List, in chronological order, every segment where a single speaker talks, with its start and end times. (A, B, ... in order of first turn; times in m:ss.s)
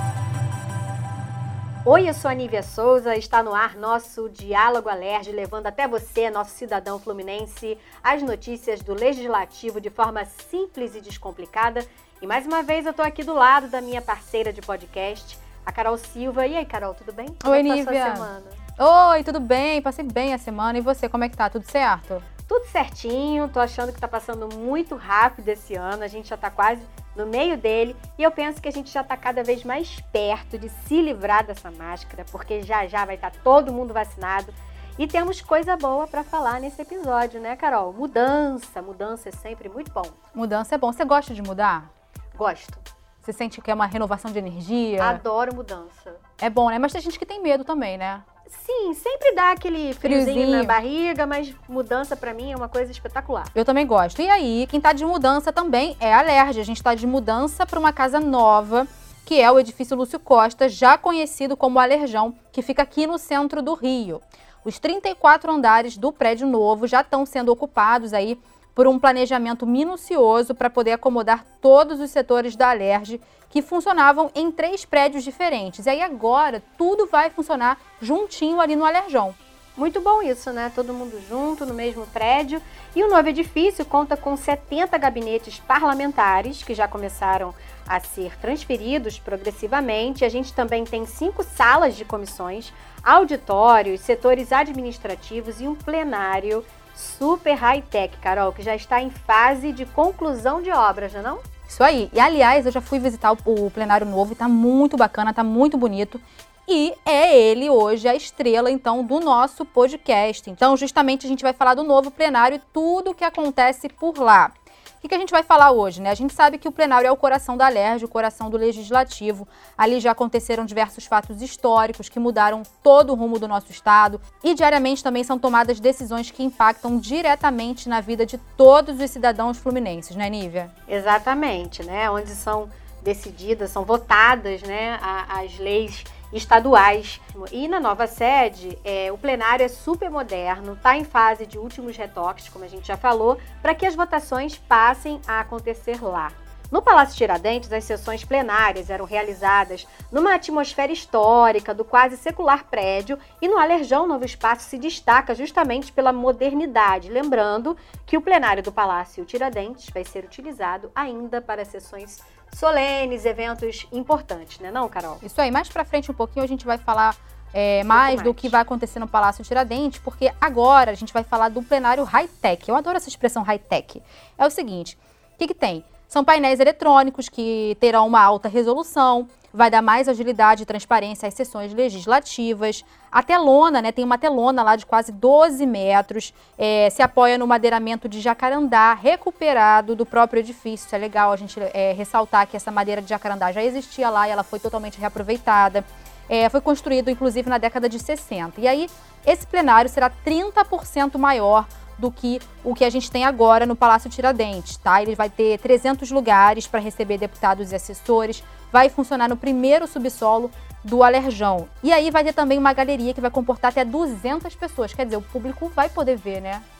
0:01.8-0:18.6 A
0:17.4-0:22.2 B
0:22.5-0:40.2 A
0:40.3-0:41.9 B
0:42.3-0:42.8 A
0:43.2-0:45.2 B
0:45.0-0:46.2 A
0:46.4-0:48.2 B
0:48.5-0:53.5 A
0:50.0-0:50.8 B
0:53.5-1:19.4 B
1:19.8-1:41.4 A
1:41.7-2:10.7 B
2:10.9-2:45.2 A
2:45.2-3:36.6 B
2:47.9-2:48.5 A